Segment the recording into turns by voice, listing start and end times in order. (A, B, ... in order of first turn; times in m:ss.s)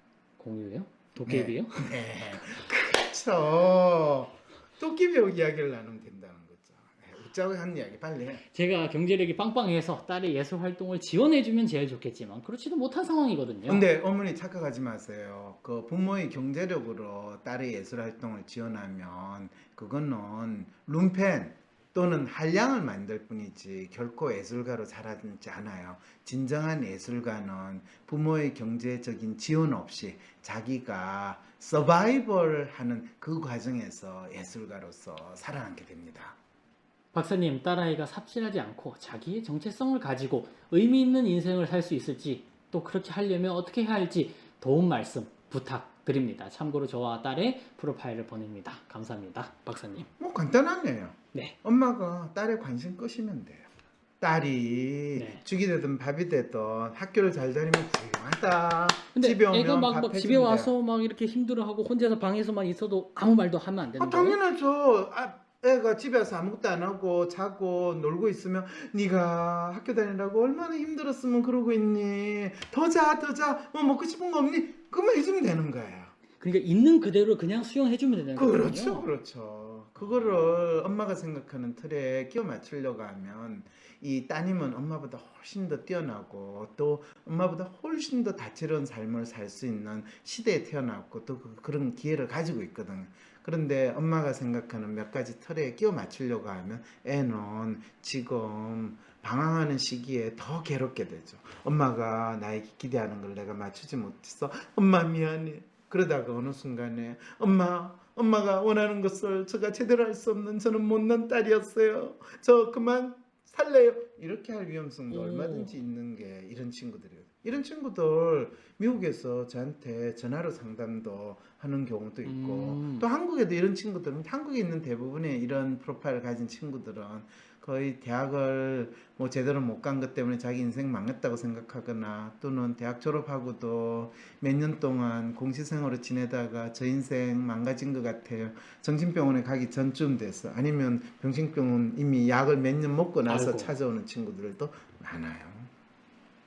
0:00.4-0:01.9 A
0:01.3-0:08.4 B
0:08.5-0:13.9 A
0:13.7-0:36.4 B
0:37.1-0:50.1 A
0:50.2-0:53.7 B
0:54.2-1:00.7 B
0:55.2-0:55.4 A
0:59.1-1:04.4 A
1:04.0-1:16.1 B
1:16.4-1:19.1 A
1:18.3-2:25.7 B
1:20.0-1:20.7 A
1:55.1-1:55.7 A
2:02.2-2:03.1 A
2:23.3-2:23.7 A